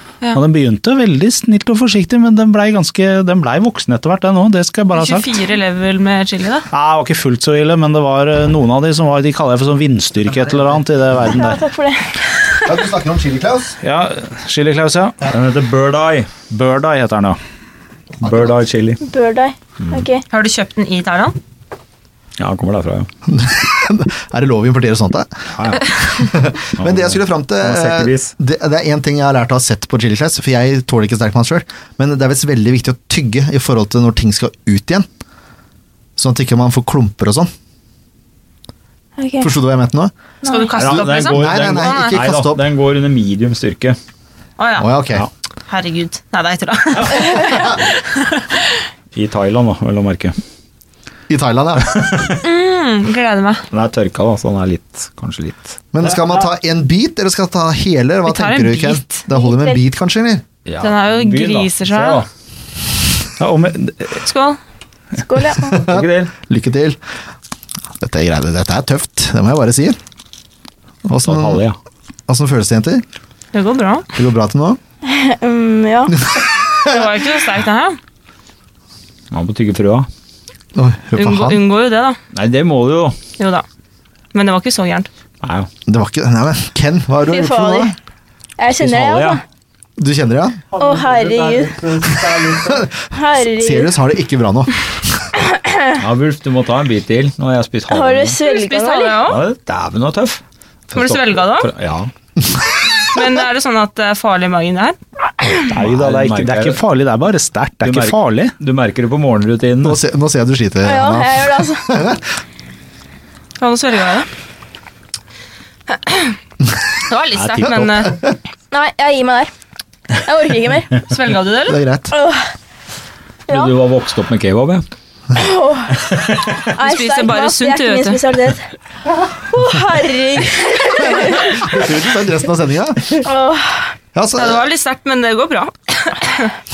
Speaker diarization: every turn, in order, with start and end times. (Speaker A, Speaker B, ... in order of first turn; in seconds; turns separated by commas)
Speaker A: 0.3-5.3, Speaker B: 4.9-6.7, Speaker A: 6.7-11.6, Speaker C: 11.2-12.7, Speaker D: 12.7-13.8, Speaker A: 13.8-15.2, Speaker E: 15.2-16.3, Speaker A: 16.5-17.4, Speaker E: 18.2-19.0, Speaker D: 18.2-18.5, Speaker C: 19.0-20.2, Speaker E: 19.8-20.1, Speaker B: 20.3-21.4, Speaker E: 22.4-23.1, Speaker D: 23.3-35.1, Speaker E: 25.6-26.0, Speaker E: 26.8-28.3, Speaker D: 36.2-37.5, Speaker C: 39.2-39.5, Speaker D: 39.4-40.1, Speaker C: 40.4-40.7, Speaker B: 40.5-42.2, Speaker E: 40.7-44.0, Speaker D: 40.8-42.6, Speaker B: 44.6-45.0, Speaker D: 44.8-45.3, Speaker B: 45.7-48.7, Speaker E: 49.1-50.4, Speaker D: 51.3-52.2, Speaker E: 51.9-52.4, Speaker B: 52.4-53.7, Speaker E: 53.7-56.2, Speaker D: 55.9-60.5, Speaker B: 58.3-59.2, Speaker C: 59.3-59.8, Speaker E: 60.7-62.3, Speaker B: 60.8-62.2, Speaker A: 63.4-64.2, Speaker B: 64.2-64.6, Speaker C: 65.2-65.8, Speaker D: 65.6-67.0, Speaker E: 65.7-66.3, Speaker D: 68.0-70.0, Speaker D: 71.1-71.6, Speaker E: 71.2-71.8, Speaker D: 72.3-73.0, Speaker B: 73.5-74.1, Speaker D: 74.1-74.8, Speaker C: 75.0-76.2, Speaker D: 76.2-77.0, Speaker B: 76.8-78.0, Speaker E: 79.3-80.1, Speaker D: 80.8-81.6, Speaker B: 81.2-82.2, Speaker E: 82.3-83.2, Speaker B: 83.4-83.7, Speaker B: 84.3-85.1, Speaker E: 85.4-85.7, Speaker D: 85.9-88.0, Speaker C: 87.3-88.0, Speaker C: 88.6-89.4, Speaker E: 88.8-89.4, Speaker D: 90.0-90.6, Speaker C: 90.8-91.8, Speaker A: 90.8-92.8, Speaker E: 91.0-92.5, Speaker C: 93.1-93.9, Speaker D: 93.5-95.4, Speaker C: 95.6-96.0, Speaker E: 96.0-98.4, Speaker C: 97.9-99.2, Speaker B: 98.4-99.5, Speaker E: 99.2-102.1, Speaker B: 100.9-101.7, Speaker B: 103.0-105.0, Speaker A: 105.7-108.5, Speaker E: 105.7-106.8, Speaker E: 107.8-110.0, Speaker D: 109.8-112.2, Speaker C: 110.8-112.0, Speaker B: 113.6-114.3, Speaker B: 115.9-116.4, Speaker B: 117.0-118.2, Speaker E: 117.3-118.0, Speaker D: 118.0-118.3, Speaker C: 118.7-119.5, Speaker C: 120.2-121.0, Speaker B: 121.0-121.8, Speaker D: 121.7-122.1, Speaker C: 122.1-122.5, Speaker C: 123.5-123.8, Speaker E: 123.5-124.9, Speaker C: 125.3-126.0, Speaker E: 125.9-126.6, Speaker C: 126.7-128.7, Speaker B: 126.8-128.2, Speaker C: 129.5-131.5, Speaker D: 131.2-133.2, Speaker C: 133.1-133.9, Speaker D: 134.1-134.6, Speaker B: 134.4-136.5